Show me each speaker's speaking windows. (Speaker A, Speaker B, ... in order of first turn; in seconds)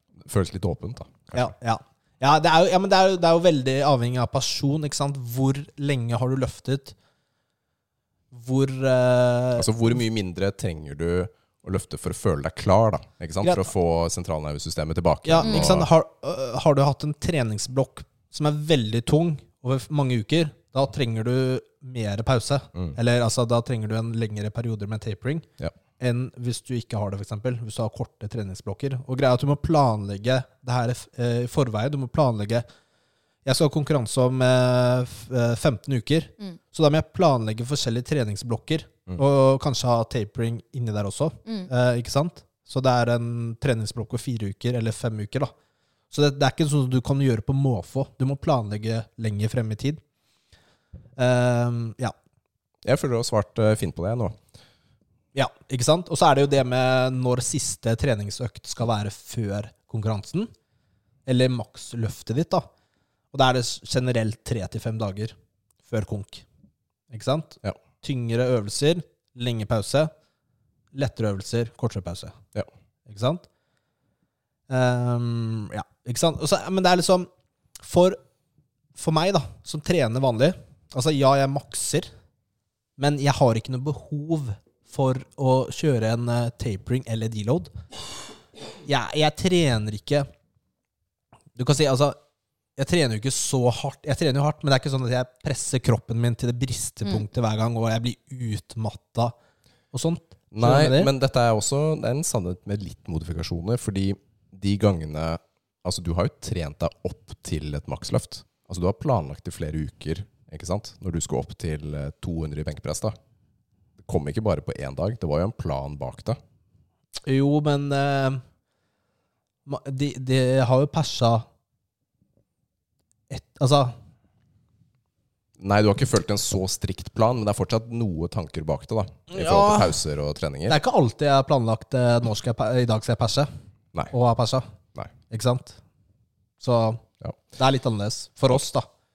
Speaker A: 0.2-1.5, 9.6-15.9, 52.8-54.4, 100.5-113.2, 114.0-116.4, 125.6-130.8
Speaker B: 1.3-7.0, 8.3-9.7, 15.2-25.5, 26.0-32.6, 33.5-45.5, 46.1-50.0, 51.2-52.1, 55.4-60.5, 61.3-62.7, 63.3-65.3, 65.9-66.4, 67.1-70.1, 70.9-72.4, 73.1-73.4, 74.7-77.3, 77.8-78.2, 79.0-82.1, 83.0-87.7, 88.9-90.3, 91.6-92.2, 92.8-99.3, 99.9-101.1, 117.3-118.4, 119.7-121.5, 123.3-123.9, 129.3-129.9, 130.7-133.5, 134.1-134.7, 135.3-135.8, 136.6-137.1, 137.6-138.9